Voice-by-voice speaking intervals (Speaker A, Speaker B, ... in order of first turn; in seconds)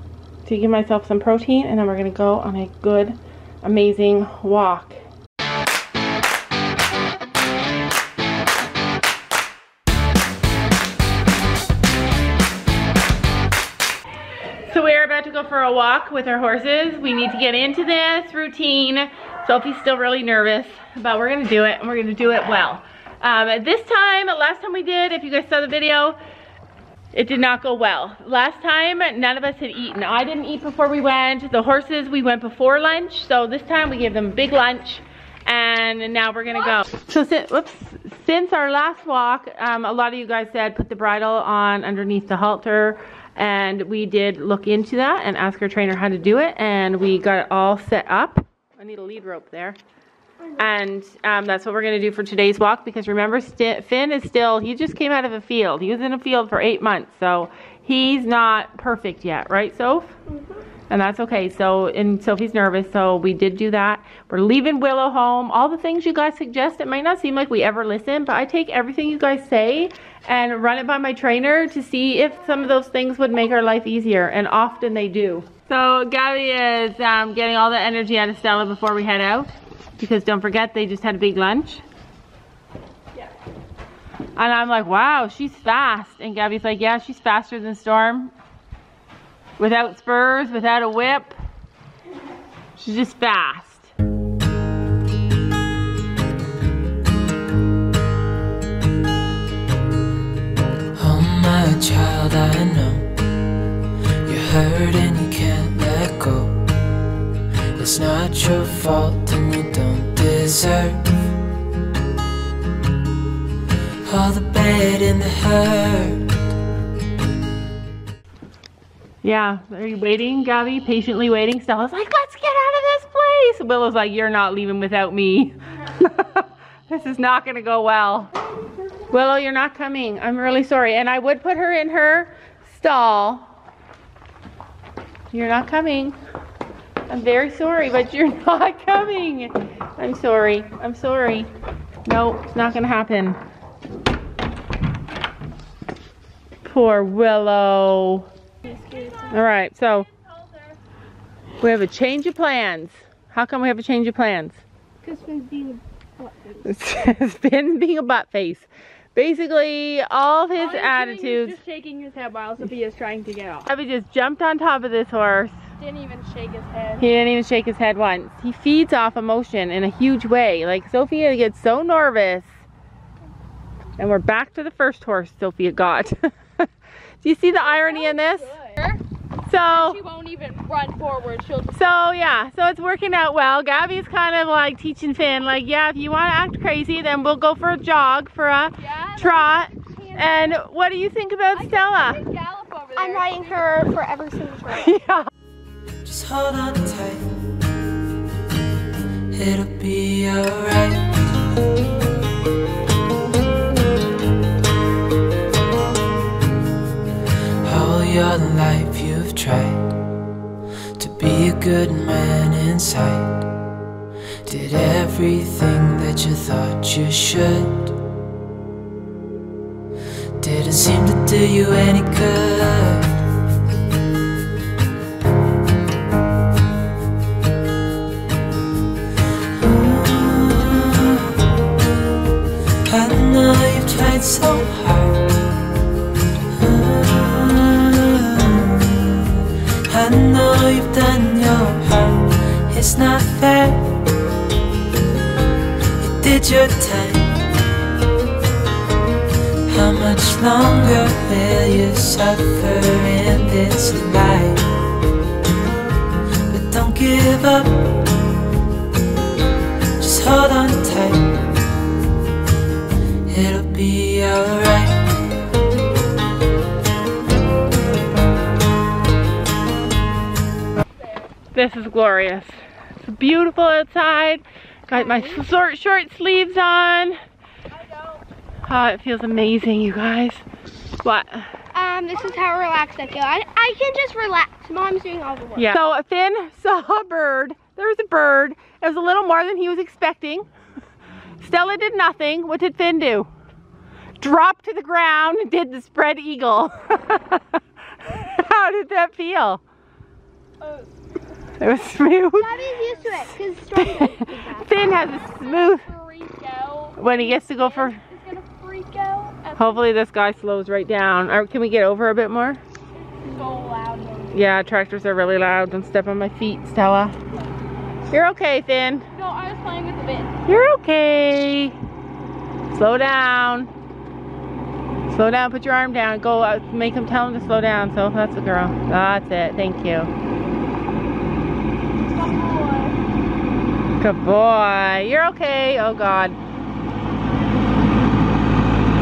Speaker A: 0.5-5.0, 14.7-26.2, 27.1-49.8, 50.6-60.2, 60.9-81.8, 84.4-88.3, 89.6-91.4, 92.8-93.9, 119.2-128.3, 129.1-133.5, 135.3-136.2, 137.1-141.5, 142.1-143.4, 146.6-148.3, 149.3-150.1, 151.6-154.6, 156.7-161.6, 163.7-165.6, 167.0-172.5, 174.0-176.7, 177.2-178.6, 179.5-180.0, 181.7-192.2, 194.7-195.3, 271.5-277.2, 278.7-280.4, 281.0-281.6, 285.6-290.5, 291.4-293.3, 294.2-297.6, 298.1-299.6, 301.6-302.5, 303.8-305.9, 307.0-308.0, 309.6-312.6, 314.3-317.1, 318.1-319.1, 320.5-321.8, 322.7-323.7, 325.1-330.1, 334.0-336.4
Speaker B: 101.0-103.2, 104.2-106.7, 107.8-111.0, 114.0-116.4, 196.0-197.5, 199.3-201.2, 207.6-210.0, 211.0-213.5, 214.5-218.0, 220.4-223.2, 229.6-231.4, 232.8-235.4, 236.6-244.0, 246.0-247.5, 249.7-254.7, 256.5-258.1, 260.0-261.4, 263.3-265.2
Speaker C: 148.7-149.3, 155.0-156.7, 192.9-195.0, 274.9-275.4, 281.7-285.7, 302.4-304.9, 332.6-332.8
Speaker D: 160.6-163.7, 165.8-167.1, 177.6-179.0, 179.7-181.9, 188.8-190.6, 191.5-193.7, 300.6-300.9, 302.8-303.1, 304.8-309.9, 312.9-314.5, 319.1-320.4, 332.1-332.9